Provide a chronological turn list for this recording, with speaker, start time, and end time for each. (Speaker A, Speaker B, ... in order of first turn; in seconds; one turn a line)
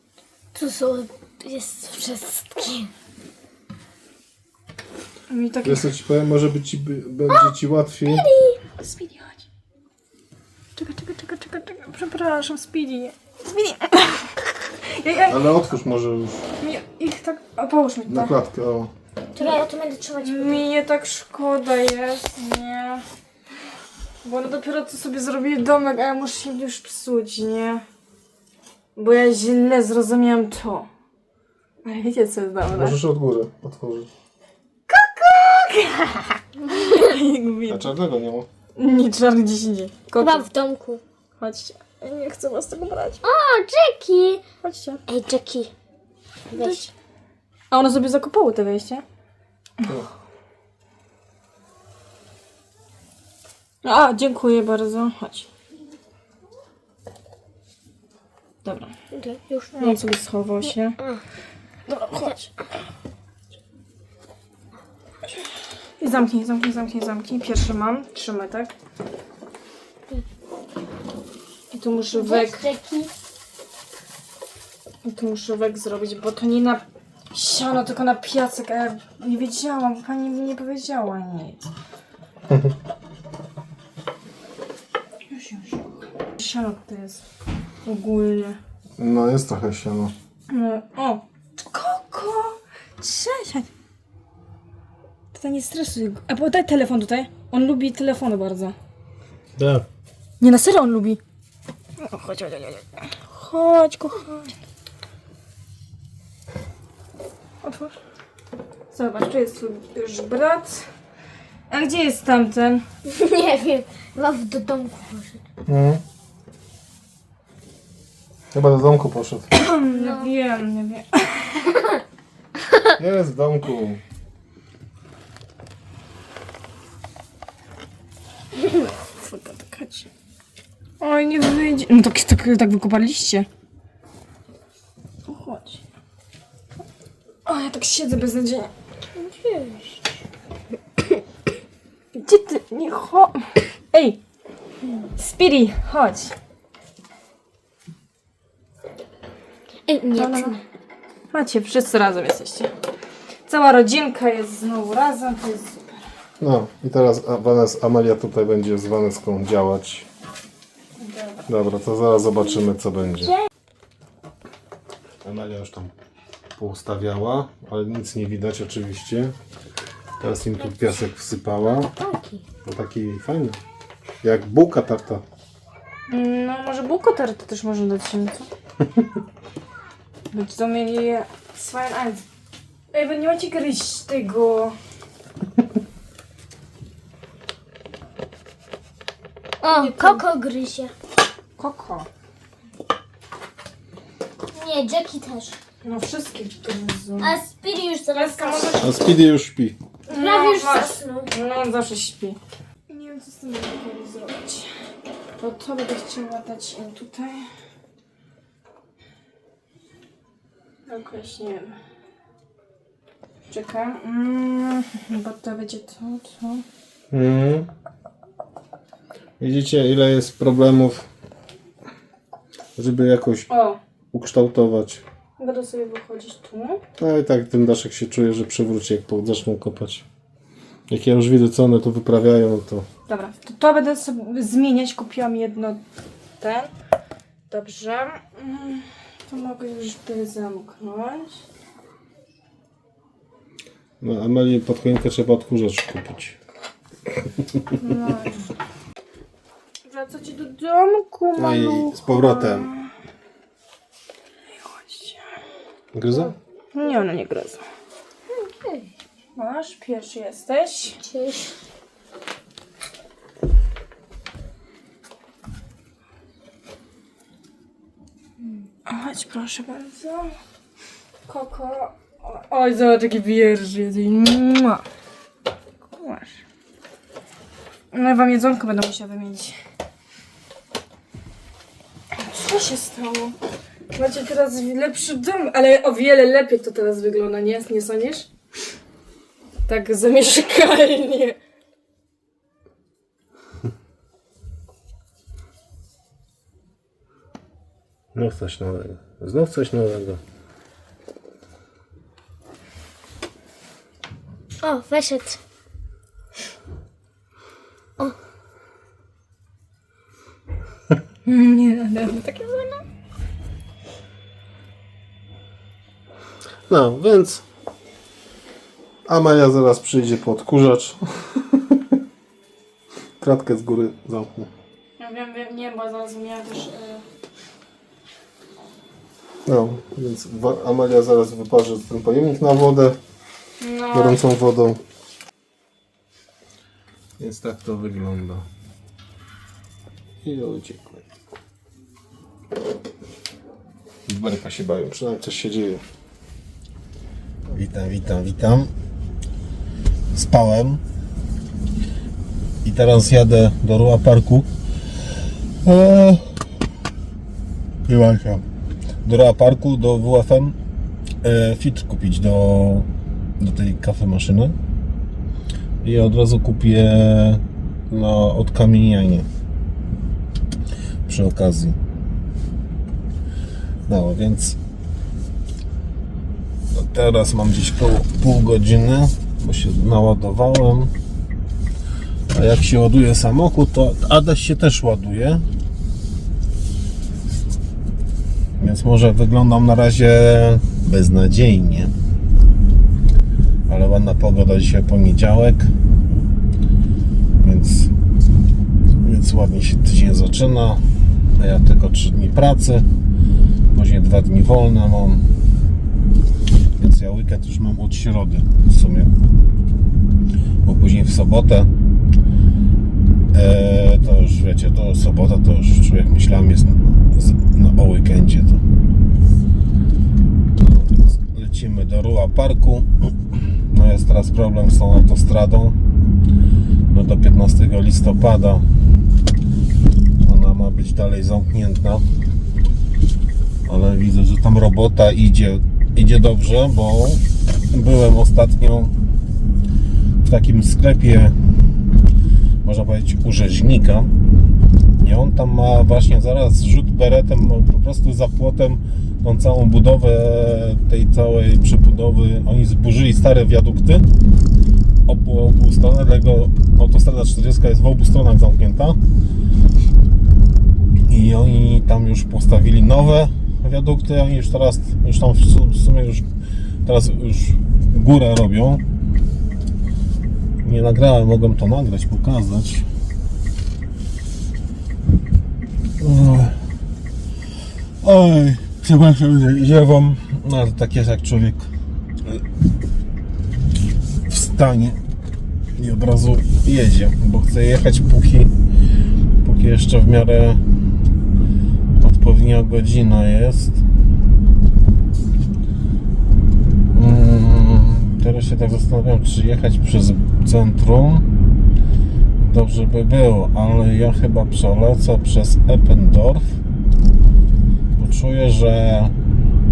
Speaker A: 0.6-2.9
Speaker B: 5.3-5.9
Speaker C: 5.6-8.3
Speaker A: 8.1-8.6
Speaker B: 8.8-9.4
Speaker B: 10.8-15.4
Speaker C: 15.3-16.4
Speaker B: 16.6-18.4
Speaker C: 18.1-18.9
Speaker A: 19.4-20.6
Speaker B: 20.2-23.0
Speaker B: 24.2-27.8
Speaker B: 29.0-30.9
Speaker B: 31.8-33.0
Speaker C: 32.7-34.1
Speaker B: 34.9-37.9
Speaker C: 37.7-38.5
Speaker B: 38.8-40.5
Speaker A: 40.2-41.0
Speaker B: 41.4-43.2
Speaker A: 43.2-44.4
Speaker B: 44.6-45.0
Speaker A: 45.1-45.7
Speaker A: 46.5-46.9
Speaker B: 46.5-46.9
Speaker B: 47.7-49.0
Speaker B: 53.8-55.5
Speaker B: 58.6-58.9
Speaker A: 59.1-60.0
Speaker B: 59.8-61.0
Speaker B: 61.9-62.5
Speaker B: 66.0-68.7
Speaker B: 71.7-72.7
Speaker A: 72.1-73.1
Speaker B: 75.0-81.7
Speaker B: 85.3-85.9
Speaker B: 86.4-87.2
Speaker B: 87.8-88.6
Speaker C: 89.0-90.1
Speaker B: 90.5-93.7
Speaker B: 95.3-98.8
Speaker C: 99.6-99.9
Speaker B: 100.4-101.2
Speaker B: 102.0-104.5
Speaker B: 107.6-108.0
Speaker B: 108.9-110.9
Speaker B: 111.7-112.9
Speaker A: 113.0-115.4
Speaker C: 115.7-116.0
Speaker C: 118.5-119.5
Speaker B: 119.5-121.8
Speaker A: 119.9-120.3
Speaker C: 123.0-124.0
Speaker B: 128.6-130.1
Speaker B: 131.0-133.5
Speaker B: 135.3-135.8
Speaker B: 137.5-138.7
Speaker A: 139.2-139.9
Speaker B: 142.2-144.2
Speaker B: 145.2-146.3
Speaker A: 149.9-150.6
Speaker B: 150.2-150.6
Speaker B: 151.3-152.7
Speaker B: 153.5-156.0
Speaker C: 156.4-160.1
Speaker B: 161.0-161.4
Speaker C: 161.5-163.4
Speaker C: 165.2-165.9
Speaker C: 166.6-169.3
Speaker C: 170.2-171.9
Speaker A: 170.6-170.9
Speaker A: 172.0-172.4
Speaker C: 172.6-173.6
Speaker C: 174.2-175.2
Speaker B: 176.1-178.5
Speaker B: 180.3-182.2
Speaker B: 182.9-184.7
Speaker A: 189.6-190.9
Speaker B: 189.8-190.2
Speaker B: 191.6-192.1
Speaker A: 194.5-195.6
Speaker B: 195.8-197.4
Speaker A: 197.2-198.8
Speaker B: 198.1-199.1
Speaker C: 198.8-199.8
Speaker A: 200.1-201.3
Speaker B: 200.1-204.7
Speaker B: 205.4-207.5
Speaker B: 210.9-211.8
Speaker B: 213.5-216.7
Speaker C: 217.1-217.7
Speaker C: 219.4-221.1
Speaker C: 222.8-223.5
Speaker B: 223.5-223.8
Speaker C: 224.1-225.0
Speaker B: 225.4-226.8
Speaker C: 227.0-230.1
Speaker C: 230.9-232.9
Speaker B: 233.1-235.8
Speaker B: 236.4-236.7
Speaker B: 237.5-241.4
Speaker C: 244.0-246.4
Speaker B: 247.8-248.5
Speaker B: 249.8-252.9
Speaker C: 251.4-252.7
Speaker B: 254.5-255.3
Speaker C: 255.9-256.4
Speaker B: 256.7-257.6
Speaker A: 258.3-258.9
Speaker B: 259.4-261.0
Speaker A: 261.0-261.6
Speaker B: 268.9-270.3
Speaker B: 271.2-274.8
Speaker B: 275.9-276.4
Speaker B: 277.9-279.6
Speaker B: 282.1-283.4
Speaker B: 283.9-288.3
Speaker B: 289.7-291.4
Speaker C: 298.1-300.2
Speaker A: 304.6-305.4
Speaker B: 311.3-312.8
Speaker C: 316.7-317.4
Speaker C: 319.1-321.8
Speaker C: 323.2-324.5
Speaker B: 325.0-327.0
Speaker C: 329.5-333.0
Speaker B: 333.6-334.2
Speaker C: 333.9-334.8
Speaker C: 337.2-338.5
Speaker C: 340.2-341.1
Speaker C: 344.1-345.8
Speaker C: 347.5-348.7
Speaker C: 350.1-350.8
Speaker C: 352.6-354.5
Speaker C: 355.6-356.4
Speaker C: 357.9-358.4
Speaker C: 359.1-360.6
Speaker C: 361.2-364.6
Speaker C: 365.8-369.3
Speaker C: 371.1-371.8
Speaker C: 373.9-374.6
Speaker C: 376.7-380.9
Speaker C: 382.3-385.5
Speaker C: 388.6-391.9
Speaker C: 393.7-395.7
Speaker C: 397.4-397.9
Speaker C: 399.0-400.8
Speaker C: 401.4-402.9
Speaker C: 403.7-405.3
Speaker C: 406.8-409.1
Speaker C: 410.6-411.7
Speaker C: 413.3-418.6
Speaker C: 420.6-425.8
Speaker C: 426.9-428.6
Speaker C: 430.2-432.1
Speaker C: 433.7-438.9
Speaker C: 440.2-441.4
Speaker C: 442.6-444.1
Speaker C: 445.0-454.1
Speaker C: 455.1-459.0
Speaker C: 461.1-466.3
Speaker C: 466.9-468.8
Speaker C: 470.6-472.9
Speaker C: 476.0-476.6
Speaker C: 478.0-481.7
Speaker C: 484.3-485.0
Speaker C: 485.8-488.5
Speaker C: 489.4-490.6
Speaker C: 492.0-493.8
Speaker C: 496.9-501.3
Speaker C: 502.4-506.6
Speaker C: 508.0-509.1